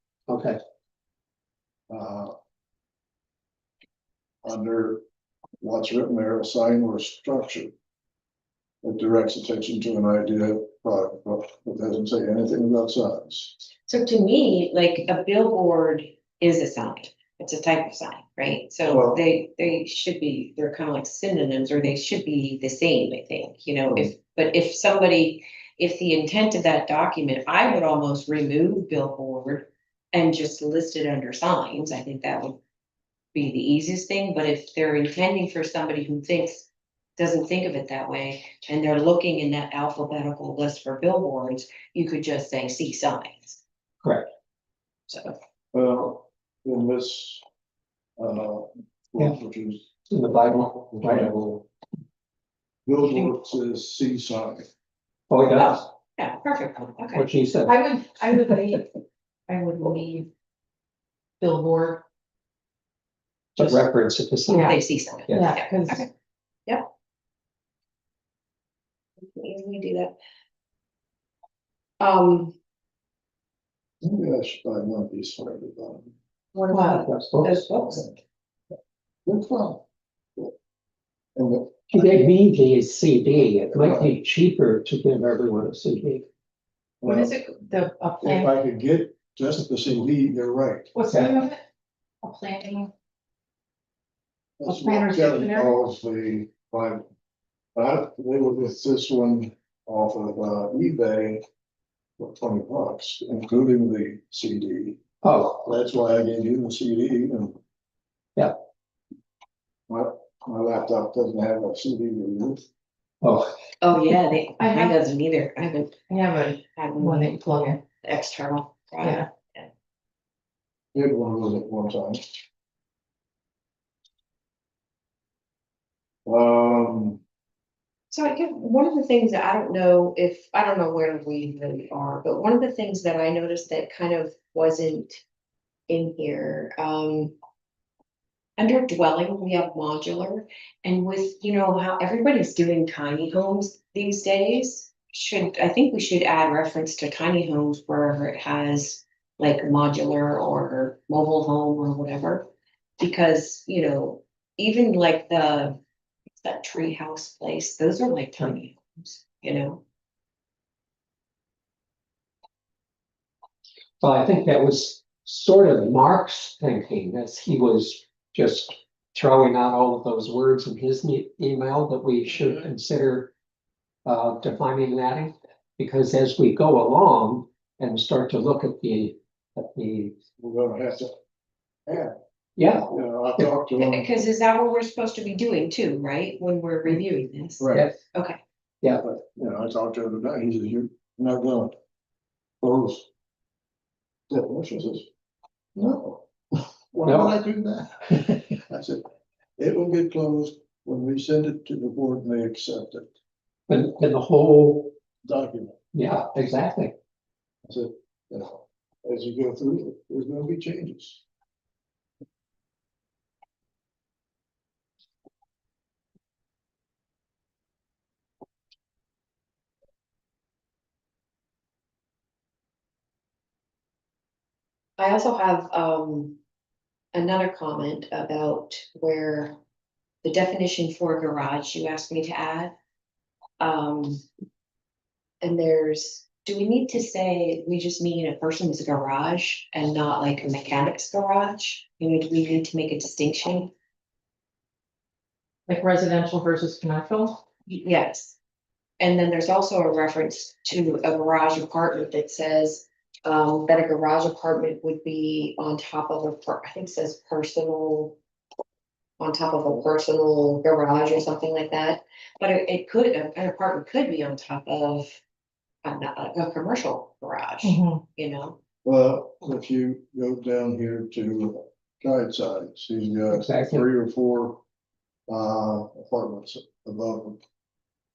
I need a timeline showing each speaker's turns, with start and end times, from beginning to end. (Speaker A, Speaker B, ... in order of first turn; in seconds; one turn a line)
Speaker A: 0.3-0.6
Speaker B: 1.9-2.3
Speaker B: 4.4-5.0
Speaker B: 5.6-7.7
Speaker B: 8.8-13.5
Speaker C: 13.9-32.6
Speaker B: 18.9-19.2
Speaker C: 33.3-43.6
Speaker A: 44.0-44.3
Speaker C: 45.1-45.4
Speaker B: 45.7-47.4
Speaker B: 48.2-49.9
Speaker A: 50.1-51.3
Speaker B: 50.5-51.7
Speaker B: 52.9-54.6
Speaker A: 55.3-55.9
Speaker C: 55.5-57.3
Speaker A: 57.1-57.8
Speaker D: 57.6-58.9
Speaker D: 59.5-60.3
Speaker D: 61.4-62.0
Speaker A: 63.5-65.5
Speaker D: 64.5-64.8
Speaker C: 64.6-66.1
Speaker D: 65.3-66.1
Speaker C: 69.2-70.2
Speaker C: 72.0-72.5
Speaker B: 74.0-76.1
Speaker C: 76.5-78.2
Speaker D: 76.7-77.1
Speaker A: 77.1-77.6
Speaker B: 79.2-79.8
Speaker B: 81.3-82.0
Speaker A: 81.9-86.3
Speaker B: 83.7-84.1
Speaker B: 87.0-87.3
Speaker D: 87.0-88.5
Speaker B: 88.2-90.9
Speaker D: 90.9-91.6
Speaker A: 91.1-91.4
Speaker D: 92.2-92.9
Speaker B: 94.6-97.0
Speaker D: 94.6-95.7
Speaker B: 97.7-101.4
Speaker B: 102.2-105.0
Speaker A: 105.2-105.6
Speaker B: 105.6-107.6
Speaker B: 109.9-112.6
Speaker A: 113.2-113.5
Speaker C: 113.8-116.0
Speaker D: 114.6-114.9
Speaker D: 116.1-117.8
Speaker C: 116.7-119.7
Speaker D: 119.0-119.3
Speaker B: 120.9-122.3
Speaker B: 126.2-127.2
Speaker C: 128.1-135.2
Speaker C: 135.9-137.3
Speaker C: 138.6-155.8
Speaker C: 156.4-159.8
Speaker A: 164.0-173.3
Speaker A: 174.0-180.2
Speaker B: 180.4-181.1
Speaker B: 181.9-182.1
Speaker A: 182.6-182.8
Speaker B: 182.7-184.1
Speaker C: 183.8-188.4
Speaker B: 187.6-187.9
Speaker B: 189.0-191.7
Speaker B: 192.6-193.1
Speaker B: 194.3-195.1
Speaker B: 195.7-199.0
Speaker A: 197.1-197.4
Speaker B: 199.6-203.1
Speaker A: 203.7-204.9
Speaker B: 205.2-205.8
Speaker A: 205.9-206.9
Speaker B: 207.7-211.2
Speaker C: 225.0-226.4
Speaker C: 227.1-229.6
Speaker C: 230.2-232.7
Speaker C: 233.6-234.2
Speaker C: 235.4-243.7
Speaker D: 245.7-247.4
Speaker C: 247.7-248.3
Speaker C: 249.0-258.2
Speaker C: 259.2-265.2
Speaker C: 265.8-268.6
Speaker D: 267.6-268.0
Speaker B: 268.8-274.6
Speaker A: 273.3-273.8
Speaker B: 275.3-277.4